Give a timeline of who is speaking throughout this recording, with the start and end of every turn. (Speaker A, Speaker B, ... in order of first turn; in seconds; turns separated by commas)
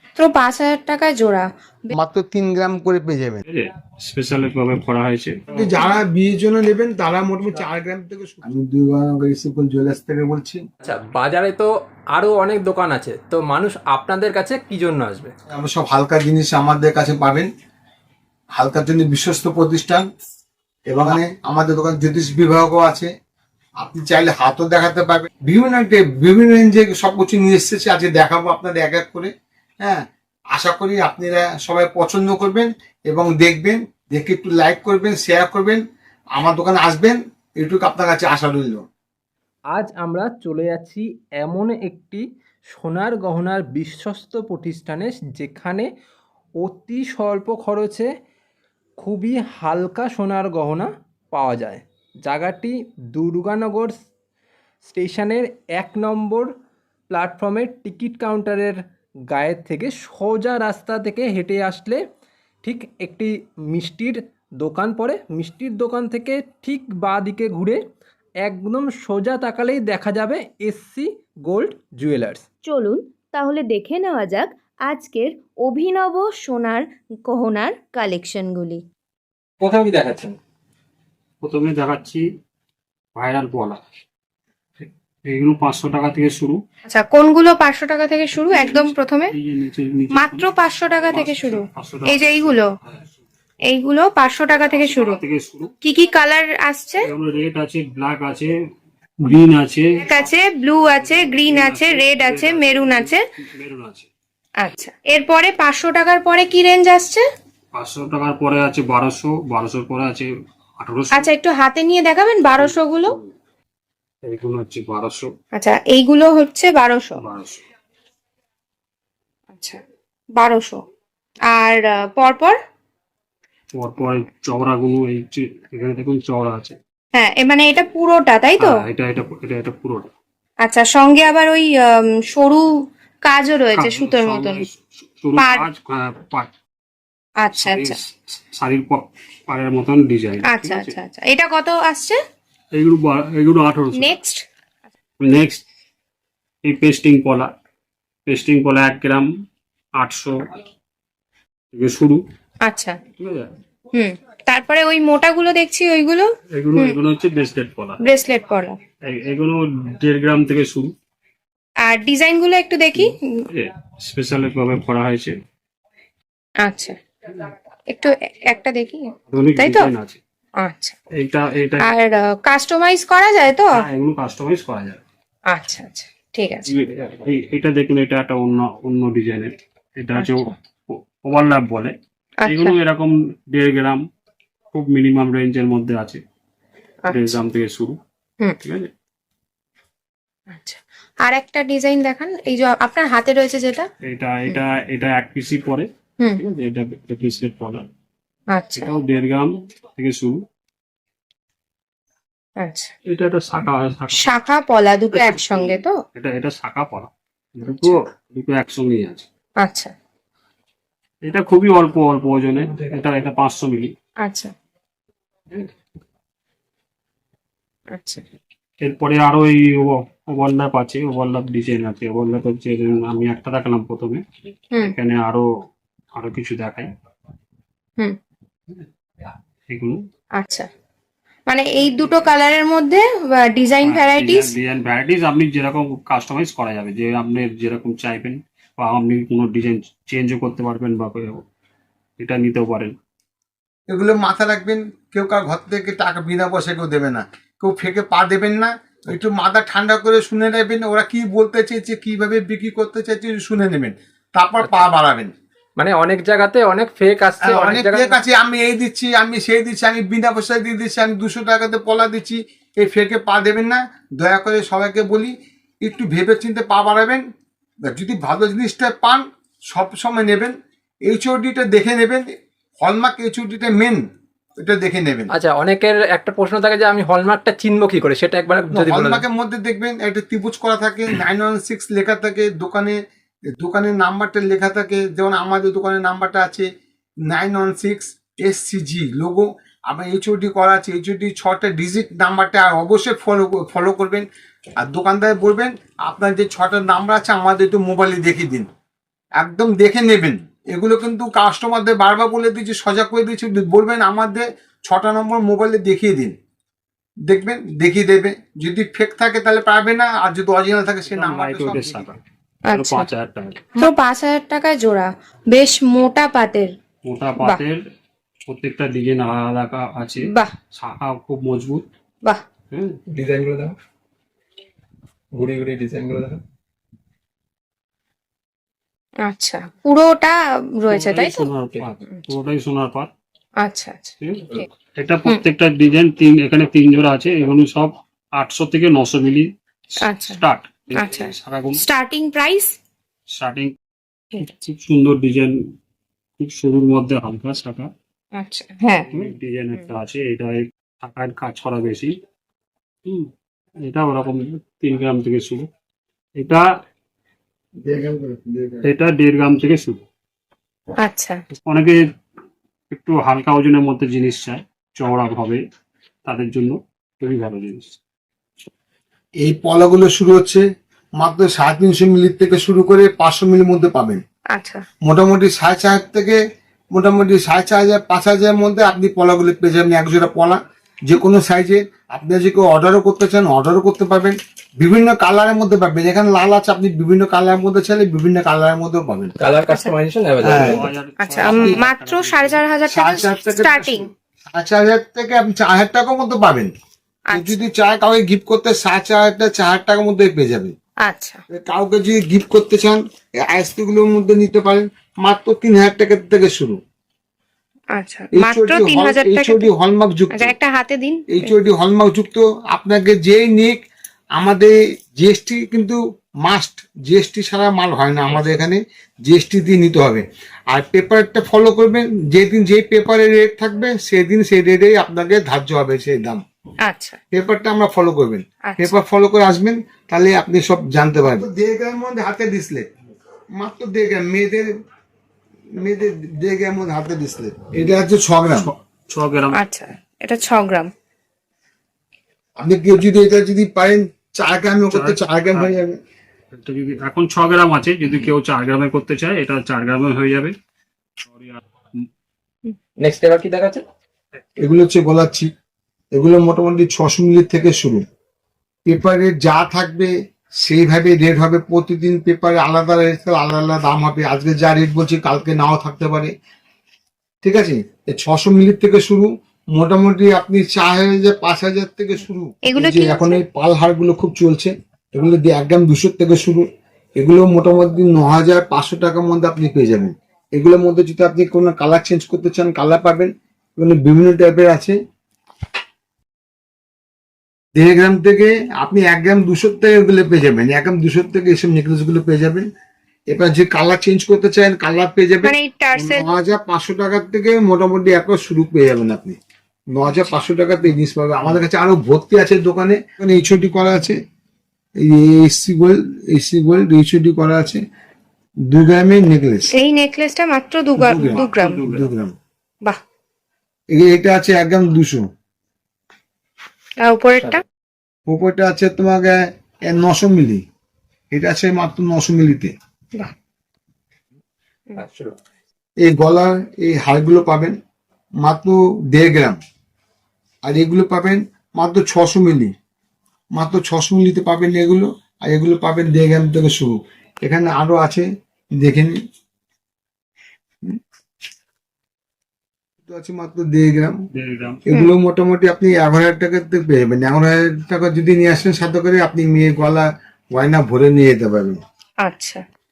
Speaker A: 0.2-1.9, Speaker B: 1.9-3.4, Speaker C: 3.5-5.8, Speaker B: 5.5-10.6, Speaker D: 10.8-15.3, Speaker B: 15.5-17.5, Speaker B: 18.6-20.1, Speaker B: 20.9-23.1, Speaker B: 23.8-29.3, Speaker B: 29.8-35.8, Speaker B: 36.4-38.9, Speaker D: 39.7-45.9, Speaker D: 46.6-48.1, Speaker D: 49.0-54.0, Speaker D: 54.9-56.5, Speaker D: 57.1-62.0, Speaker D: 62.6-67.8, Speaker D: 68.4-72.5, Speaker E: 72.6-78.8, Speaker D: 79.6-80.4, Speaker C: 81.4-82.2, Speaker C: 83.2-83.8, Speaker C: 85.3-86.6, Speaker A: 86.9-89.3, Speaker C: 88.5-90.5, Speaker A: 90.2-92.7, Speaker C: 91.1-92.6, Speaker A: 93.7-95.2, Speaker C: 94.7-95.7, Speaker A: 95.8-97.1, Speaker C: 97.1-98.5, Speaker C: 99.2-99.8, Speaker A: 100.0-103.2, Speaker C: 101.0-104.1, Speaker A: 104.6-107.2, Speaker C: 107.8-110.3, Speaker C: 110.8-111.3, Speaker A: 111.1-113.2, Speaker C: 112.6-113.2, Speaker C: 114.3-115.3, Speaker A: 115.5-117.2, Speaker C: 117.2-117.6, Speaker A: 120.4-120.8, Speaker A: 121.5-122.6, Speaker C: 123.8-126.8, Speaker A: 127.2-128.8, Speaker C: 128.6-130.1, Speaker A: 130.6-132.7, Speaker A: 133.2-134.7, Speaker C: 133.8-136.5, Speaker A: 135.4-135.7, Speaker A: 137.4-138.0, Speaker C: 137.6-140.9, Speaker A: 140.5-142.2, Speaker C: 142.8-144.2, Speaker A: 143.9-144.4, Speaker C: 145.2-145.6, Speaker C: 146.6-147.5, Speaker C: 148.3-149.3, Speaker C: 150.0-150.6, Speaker C: 151.7-152.2, Speaker A: 152.7-153.0, Speaker C: 153.2-153.5, Speaker A: 153.9-157.0, Speaker C: 156.6-158.0, Speaker A: 158.0-158.8, Speaker C: 159.1-160.9, Speaker A: 161.8-163.1, Speaker C: 162.9-165.4, Speaker A: 166.7-169.1, Speaker C: 169.3-170.2, Speaker A: 169.6-169.9, Speaker A: 170.6-170.9, Speaker C: 171.2-171.9, Speaker A: 171.8-173.7, Speaker C: 173.8-175.0, Speaker A: 175.5-176.7, Speaker C: 176.8-181.9, Speaker A: 180.2-180.5, Speaker A: 182.4-182.8, Speaker C: 182.5-184.0, Speaker C: 184.7-186.2, Speaker A: 187.1-187.3, Speaker C: 187.1-188.0, Speaker C: 188.6-188.9, Speaker A: 190.5-193.9, Speaker C: 194.1-197.9, Speaker A: 198.5-198.9, Speaker C: 198.8-200.4, Speaker A: 202.6-202.9, Speaker C: 203.1-204.3, Speaker A: 204.1-205.9, Speaker C: 205.1-209.3, Speaker A: 207.7-208.0, Speaker A: 209.6-209.9, Speaker C: 211.2-213.9, Speaker A: 214.2-214.5, Speaker A: 217.9-218.2, Speaker C: 218.8-224.2, Speaker C: 224.8-225.4, Speaker C: 226.2-226.9, Speaker C: 229.7-230.0, Speaker A: 230.4-230.7, Speaker A: 231.5-234.5, Speaker C: 233.8-241.4, Speaker C: 242.2-242.9, Speaker B: 243.9-255.3, Speaker D: 255.8-258.2, Speaker B: 257.4-267.2, Speaker B: 267.9-272.3, Speaker B: 272.8-274.0, Speaker B: 274.6-275.3, Speaker D: 275.3-279.2, Speaker B: 278.7-283.0, Speaker B: 283.5-286.7, Speaker B: 287.3-294.3, Speaker B: 294.8-298.7, Speaker B: 299.4-306.4, Speaker B: 307.3-312.1, Speaker C: 311.1-312.2, Speaker A: 312.7-313.1, Speaker C: 312.7-313.8, Speaker A: 313.8-316.7, Speaker C: 317.1-317.8, Speaker C: 318.5-321.9, Speaker A: 320.2-320.5, Speaker C: 322.7-323.0, Speaker D: 323.1-323.8, Speaker D: 325.3-326.4, Speaker A: 329.2-331.5, Speaker C: 330.9-333.1, Speaker A: 333.6-334.7, Speaker C: 334.2-339.5, Speaker A: 340.0-340.4, Speaker C: 340.1-341.8, Speaker A: 340.9-342.7, Speaker C: 343.4-343.7, Speaker C: 344.4-345.6, Speaker C: 346.4-347.9, Speaker A: 348.4-349.1, Speaker C: 349.1-352.1, Speaker C: 353.9-355.7, Speaker B: 357.8-358.9, Speaker C: 358.8-360.0, Speaker A: 361.0-361.4, Speaker C: 361.7-362.0, Speaker C: 362.9-365.6, Speaker C: 366.3-368.0, Speaker B: 369.4-370.6, Speaker B: 371.2-374.2, Speaker A: 374.5-374.8, Speaker B: 375.1-376.4, Speaker B: 376.9-389.3, Speaker D: 389.4-390.9, Speaker B: 390.4-390.8, Speaker C: 390.4-392.6, Speaker A: 391.2-394.0, Speaker B: 391.4-391.8, Speaker B: 392.9-396.7, Speaker A: 397.3-397.6, Speaker B: 397.3-400.7, Speaker A: 401.1-401.4, Speaker B: 401.5-406.8, Speaker A: 408.0-409.7, Speaker B: 408.3-410.6, Speaker A: 410.3-411.6, Speaker B: 411.3-413.8, Speaker B: 414.4-426.4, Speaker A: 426.9-427.2, Speaker B: 427.3-432.9, Speaker A: 428.7-428.9, Speaker B: 433.6-434.7, Speaker B: 435.8-438.7, Speaker C: 438.5-439.6, Speaker A: 439.5-440.9, Speaker B: 442.6-446.0, Speaker C: 444.9-445.7, Speaker C: 446.5-450.5, Speaker C: 451.2-452.1, Speaker D: 453.0-453.8, Speaker B: 454.6-455.5, Speaker B: 456.1-458.0, Speaker B: 458.9-460.1, Speaker B: 460.6-466.3, Speaker B: 467.4-476.7, Speaker A: 472.7-473.4, Speaker B: 477.2-485.0, Speaker B: 487.8-492.7, Speaker B: 493.3-499.4, Speaker A: 495.4-496.3, Speaker B: 499.9-504.2, Speaker B: 505.1-507.8, Speaker B: 508.7-509.7, Speaker A: 509.7-511.8, Speaker B: 511.0-512.4, Speaker C: 511.1-512.1, Speaker B: 513.9-515.2, Speaker A: 517.0-517.6, Speaker B: 518.3-520.6, Speaker B: 521.3-522.7, Speaker D: 525.0-525.4, Speaker B: 526.0-527.8, Speaker B: 528.4-529.6, Speaker B: 530.6-532.7, Speaker B: 533.5-538.3, Speaker B: 538.8-539.1, Speaker B: 543.1-544.2, Speaker C: 544.4-544.8, Speaker B: 544.9-551.8, Speaker A: 552.3-552.6